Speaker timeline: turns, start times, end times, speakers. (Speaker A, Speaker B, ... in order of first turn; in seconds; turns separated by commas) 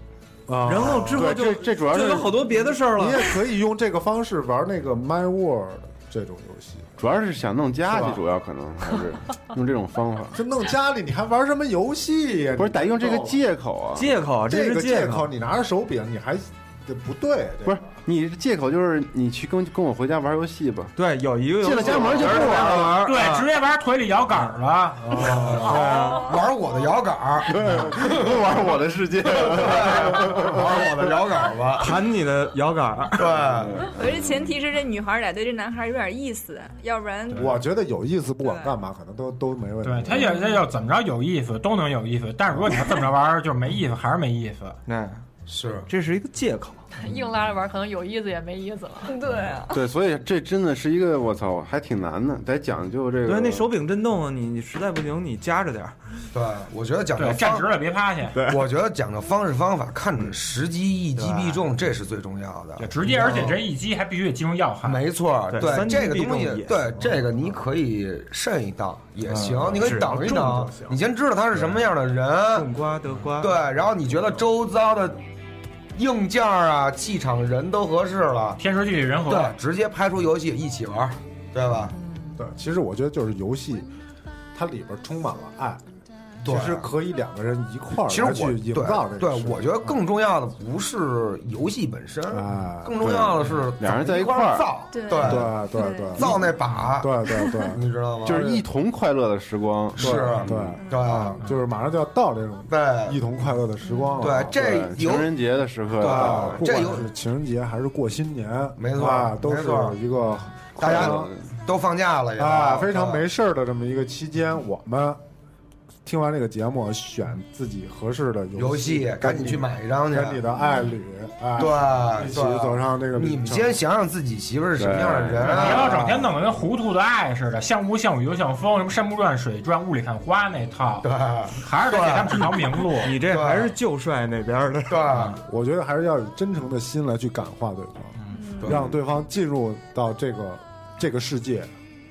Speaker A: 0.5-1.6, Speaker B: 0.6-3.3, Speaker C: 0.8-1.2, Speaker D: 1.2-2.6, Speaker A: 2.9-7.0, Speaker D: 7.0-10.4, Speaker A: 7.9-8.2, Speaker A: 10.3-13.4, Speaker D: 12.6-14.2, Speaker B: 13.9-15.3, Speaker A: 14.5-18.0, Speaker D: 17.6-20.9, Speaker B: 20.9-23.2, Speaker D: 21.6-23.0, Speaker C: 22.1-23.5, Speaker E: 22.9-25.5, Speaker B: 25.1-26.3, Speaker C: 25.1-28.4, Speaker A: 25.4-26.1, Speaker F: 25.6-26.4, Speaker D: 27.6-30.6, Speaker C: 29.2-32.0, Speaker B: 31.8-33.3, Speaker C: 33.2-33.9, Speaker D: 33.4-34.5, Speaker F: 33.9-37.6, Speaker A: 37.3-40.3, Speaker F: 38.4-38.7, Speaker E: 39.8-44.8, Speaker B: 44.9-45.2, Speaker C: 45.5-45.9, Speaker B: 45.9-46.8, Speaker G: 47.0-49.1, Speaker F: 49.0-49.8, Speaker D: 49.7-53.7, Speaker B: 53.2-56.0, Speaker C: 56.3-57.7, Speaker E: 57.1-58.4, Speaker B: 58.3-58.6, Speaker C: 58.5-63.6, Speaker B: 61.1-61.6, Speaker E: 62.8-65.0, Speaker C: 64.8-72.7, Speaker B: 65.5-67.1, Speaker B: 69.2-71.0, Speaker B: 72.5-73.6, Speaker C: 73.4-75.2, Speaker C: 75.9-78.6, Speaker E: 78.6-79.6, Speaker C: 79.2-81.9, Speaker A: 82.4-83.9, Speaker A: 84.5-85.8, Speaker C: 86.4-86.9, Speaker A: 86.4-90.0, Speaker C: 88.1-95.6, Speaker A: 92.3-93.0, Speaker D: 93.0-94.7, Speaker F: 94.9-96.4, Speaker A: 95.2-96.4, Speaker C: 96.1-97.1, Speaker A: 97.0-98.6, Speaker F: 97.3-97.6, Speaker C: 97.7-98.6, Speaker D: 98.2-100.7, Speaker C: 100.0-101.4, Speaker A: 100.0-104.6, Speaker F: 100.8-101.3, Speaker C: 102.7-103.2, Speaker C: 104.2-105.3, Speaker D: 104.5-106.7, Speaker C: 106.0-107.1, Speaker A: 106.0-111.3, Speaker C: 108.8-110.0, Speaker C: 110.8-113.2, Speaker D: 110.8-111.4, Speaker A: 112.4-115.2, Speaker A: 116.0-123.8, Speaker C: 118.5-120.4, Speaker C: 121.5-126.0, Speaker D: 124.8-125.5, Speaker E: 125.5-133.2, Speaker A: 125.5-126.3, Speaker C: 131.0-133.8, Speaker B: 133.0-135.3, Speaker C: 134.9-135.4, Speaker A: 135.3-141.7, Speaker F: 138.3-138.8, Speaker C: 138.6-138.9